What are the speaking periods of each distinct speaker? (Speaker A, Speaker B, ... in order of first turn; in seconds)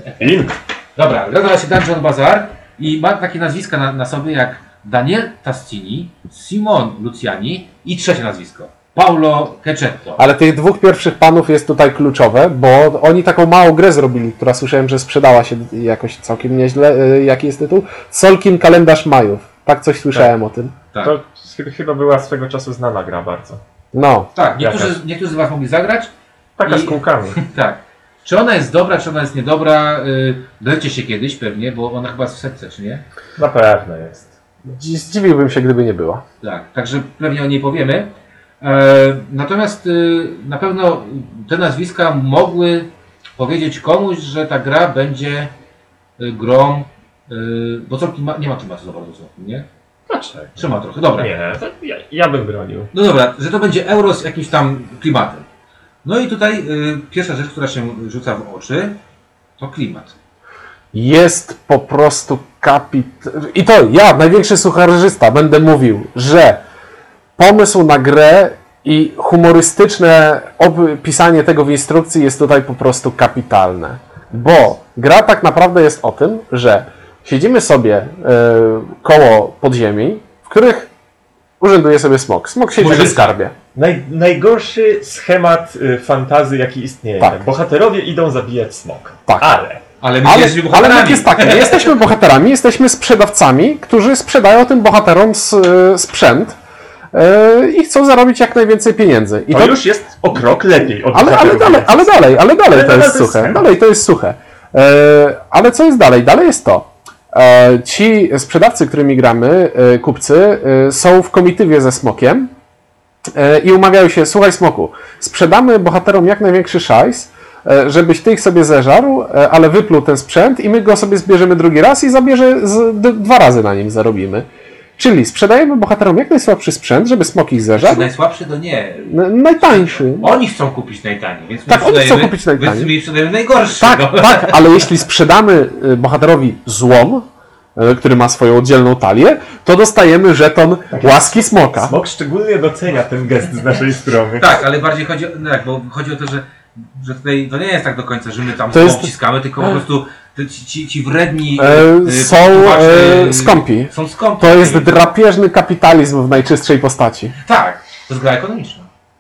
Speaker A: 0.2-0.6, 21.0-23.6, 24.6-24.9, 26.6-27.4, 33.4-34.3, 50.1-52.9, 82.8-89.8, 99.5-103.6, 140.9-144.6
Speaker B: 0.9-10.2, 24.3-26.1, 26.6-33.0, 36.4-45.5, 46.2-49.7, 50.5-51.3, 52.9-55.5, 56.0-59.0, 59.6-60.1, 82.7-83.3, 90.0-91.9, 127.7-134.9, 144.4-155.1, 157.4-158.9
Speaker C: 10.2-20.7, 23.9-24.3, 34.7-36.2, 60.9-66.6, 67.4-80.9, 81.6-83.5, 87.2-87.4, 90.2-96.5, 97.1-99.8, 101.1-112.5, 113.3-128.1, 129.1-130.3, 131.7-132.9, 133.8-142.0, 148.7-149.1, 151.6-157.3